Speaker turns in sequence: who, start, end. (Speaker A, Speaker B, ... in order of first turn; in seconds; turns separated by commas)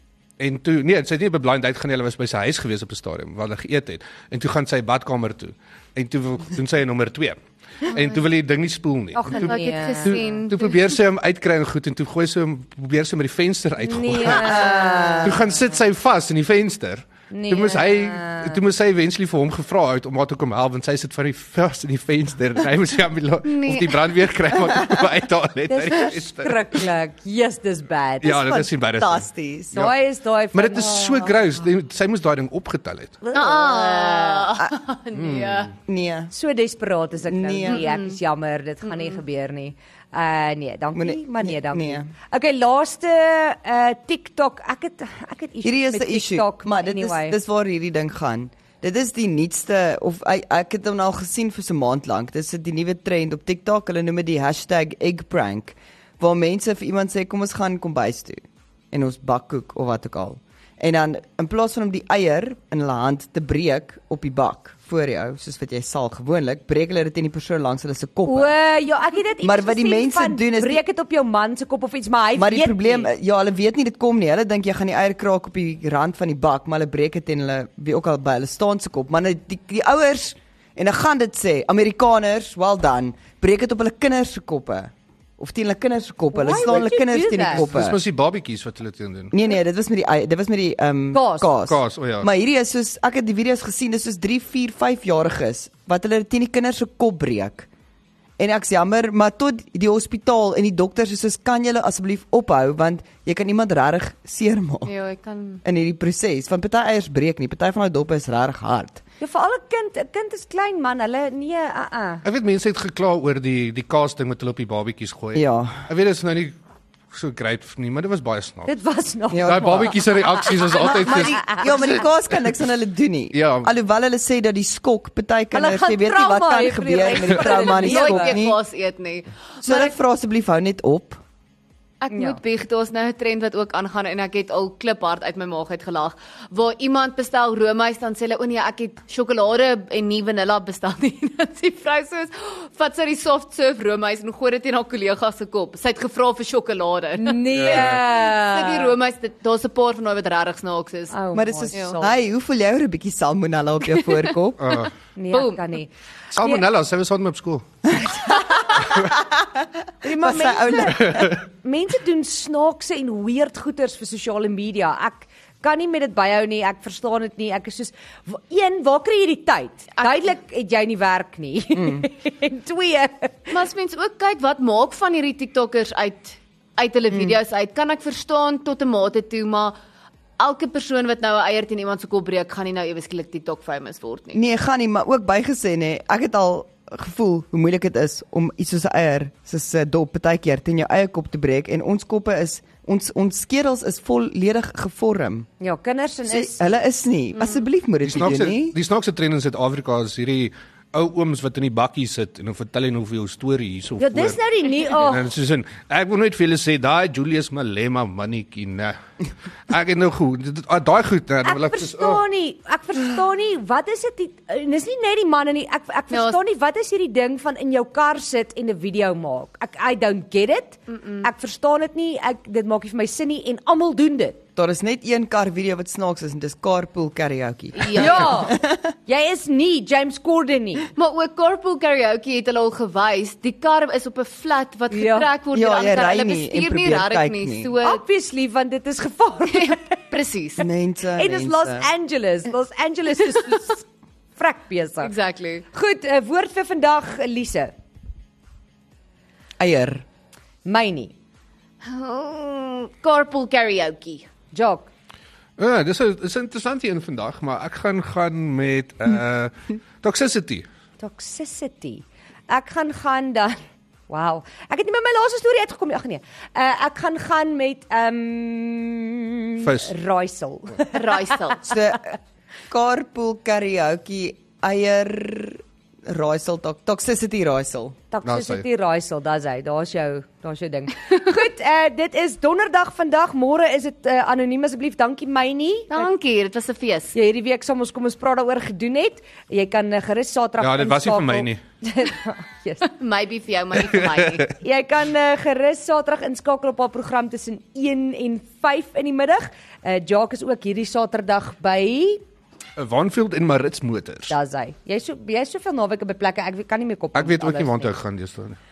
Speaker A: 0.4-26.8, Speaker B: 9.2-10.2, Speaker C: 9.3-11.0, Speaker B: 13.8-15.5, Speaker D: 14.3-15.4, Speaker B: 17.3-18.6, Speaker C: 23.4-24.1, Speaker B: 25.7-28.4, Speaker A: 28.2-30.0, Speaker D: 28.3-29.9, Speaker B: 29.8-31.3, Speaker A: 30.5-33.2, Speaker B: 33.2-34.5, Speaker C: 33.3-35.7, Speaker A: 35.1-35.7, Speaker D: 35.9-36.3, Speaker B: 36.3-47.4, Speaker D: 37.3-37.8, Speaker C: 37.7-38.2, Speaker C: 38.9-39.2, Speaker D: 41.0-42.1, Speaker D: 45.6-68.5, Speaker B: 68.3-73.1, Speaker D: 69.4-70.8, Speaker D: 72.4-88.0, Speaker B: 86.3-87.7, Speaker A: 87.5-89.3, Speaker D: 89.3-97.7, Speaker B: 91.1-91.5, Speaker A: 91.7-92.3, Speaker D: 98.4-104.9, Speaker C: 104.9-105.6, Speaker D: 105.6-109.0, Speaker B: 109.2-112.2, Speaker A: 112.2-116.6, Speaker D: 115.3-115.9, Speaker A: 117.1-118.7, Speaker B: 118.7-122.0, Speaker D: 119.3-120.1, Speaker A: 119.5-121.8, Speaker D: 120.7-128.6, Speaker A: 123.3-123.7, Speaker B: 125.5-128.4, Speaker C: 127.4-129.9, Speaker D: 129.6-131.2, Speaker C: 132.0-151.1, Speaker B: 132.1-132.4, Speaker B: 147.2-148.9, Speaker A: 147.5-148.0, Speaker B: 151.1-152.2, Speaker D: 151.3-154.8, Speaker A: 154.6-154.9, Speaker B: 155.2-156.6, Speaker C: 155.3-155.7, Speaker A: 156.3-157.7, Speaker D: 157.9-158.4, Speaker D: 158.9-159.5, Speaker D: 160.0-161.3, Speaker B: 160.0-173.6, Speaker A: 160.9-161.4, Speaker D: 171.8-172.1, Speaker C: 173.5-179.8, Speaker C: 180.4-184.4, Speaker D: 184.3-195.5, Speaker B: 195.6-196.6, Speaker D: 196.3-198.8, Speaker A: 198.1-209.0, Speaker B: 204.0-205.3, Speaker A: 209.7-212.2, Speaker B: 211.4-224.4, Speaker C: 216.1-216.4, Speaker C: 220.9-221.3, Speaker D: 224.6-228.9, Speaker C: 227.8-228.4, Speaker B: 228.0-230.9, Speaker C: 231.0-238.0, Speaker B: 234.9-235.3, Speaker D: 235.5-237.7, Speaker B: 237.8-240.0, Speaker C: 239.5-240.7, Speaker D: 240.6-241.9, Speaker B: 241.2-243.8, Speaker B: 244.4-245.1, Speaker C: 245.0-245.7, Speaker B: 245.7-247.7, Speaker D: 249.6-250.0, Speaker B: 250.7-251.1, Speaker C: 251.8-254.3, Speaker B: 254.5-254.9, Speaker A: 255.6-260.6, Speaker B: 261.0-271.8, Speaker A: 269.6-269.9, Speaker C: 270.9-271.6, Speaker D: 271.7-272.1, Speaker D: 272.7-278.0, Speaker B: 278.1-286.1, Speaker A: 278.2-278.6, Speaker C: 285.9-287.1, Speaker B: 287.1-292.9, Speaker A: 290.6-291.6, Speaker C: 292.9-294.5, Speaker B: 294.6-302.2, Speaker A: 302.8-304.3, Speaker B: 304.3-307.9, Speaker A: 307.1-308.6